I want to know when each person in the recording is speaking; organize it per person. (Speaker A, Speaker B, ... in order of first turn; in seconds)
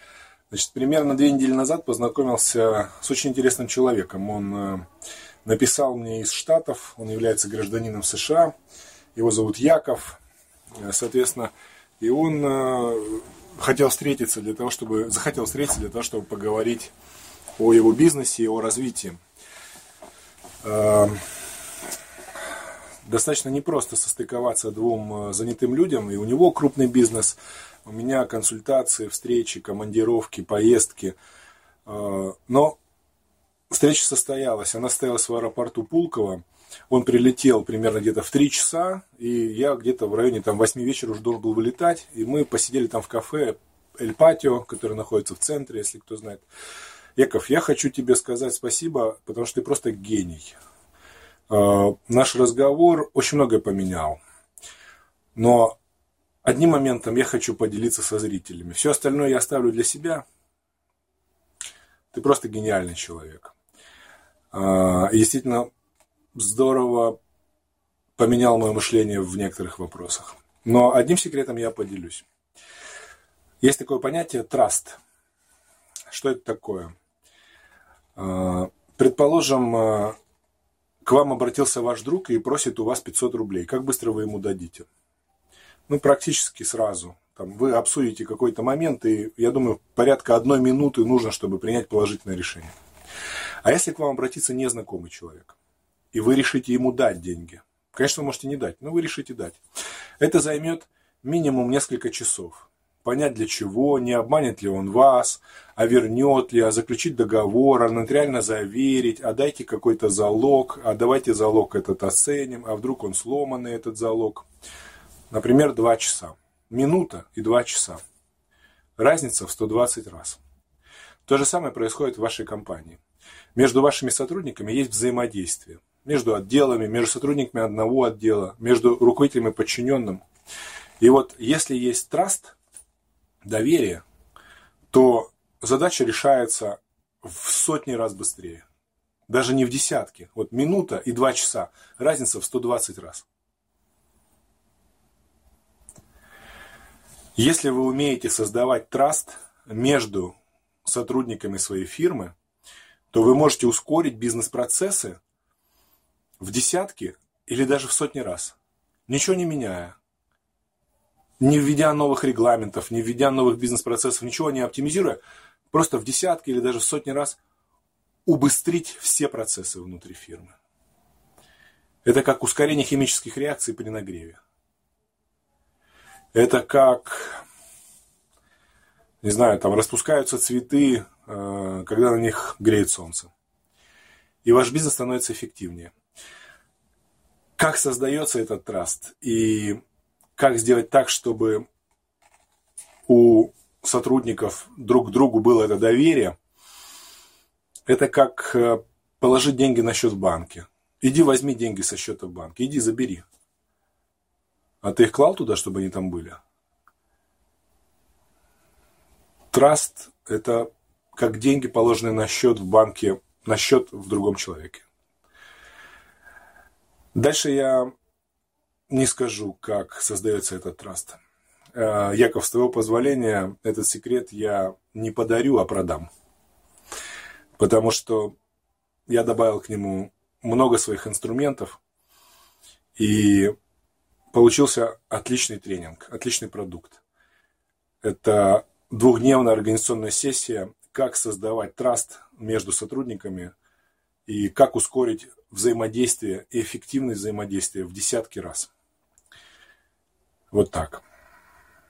Speaker A: 0.5-4.9, 5.5-8.5, 9.2-10.2, 10.8-16.9, 17.6-19.2, 20.6-21.2, 23.1-31.2, 31.9-32.8, 33.7-46.5, 47.2-50.6, 51.5-54.2, 55.4-55.8, 56.4-60.2, 62.1-63.5, 64.5-65.7, 66.3-67.2, 68.2-72.2, 73.6-75.0, 76.1-76.9, 78.2-80.2, 81.0-84.9, 85.9-92.8, 93.6-95.5, 96.1-99.6, 100.2-114.5, 115.3-118.0, 119.0-120.4, 121.3-123.0, 123.5-130.2, 131.0-132.6, 133.4-134.0, 134.9-138.7, 139.3-143.3, 147.4-152.3, 153.1-155.2, 156.4-158.6, 159.1-160.0, 161.4-167.4, 168.3-170.5, 172.0-174.4, 176.3-177.4, 179.2-183.3, 184.4-185.9, 187.6-189.8, 190.4-191.7, 193.1-196.4, 197.9-203.2, 204.8-206.4, 209.5-214.9, 217.2-217.9, 218.9-221.2, 221.8-226.1, 227.6-228.3, 229.1-231.8, 233.0-233.6, 234.3-237.0, 238.0-243.5, 244.3-248.7, 250.5-251.0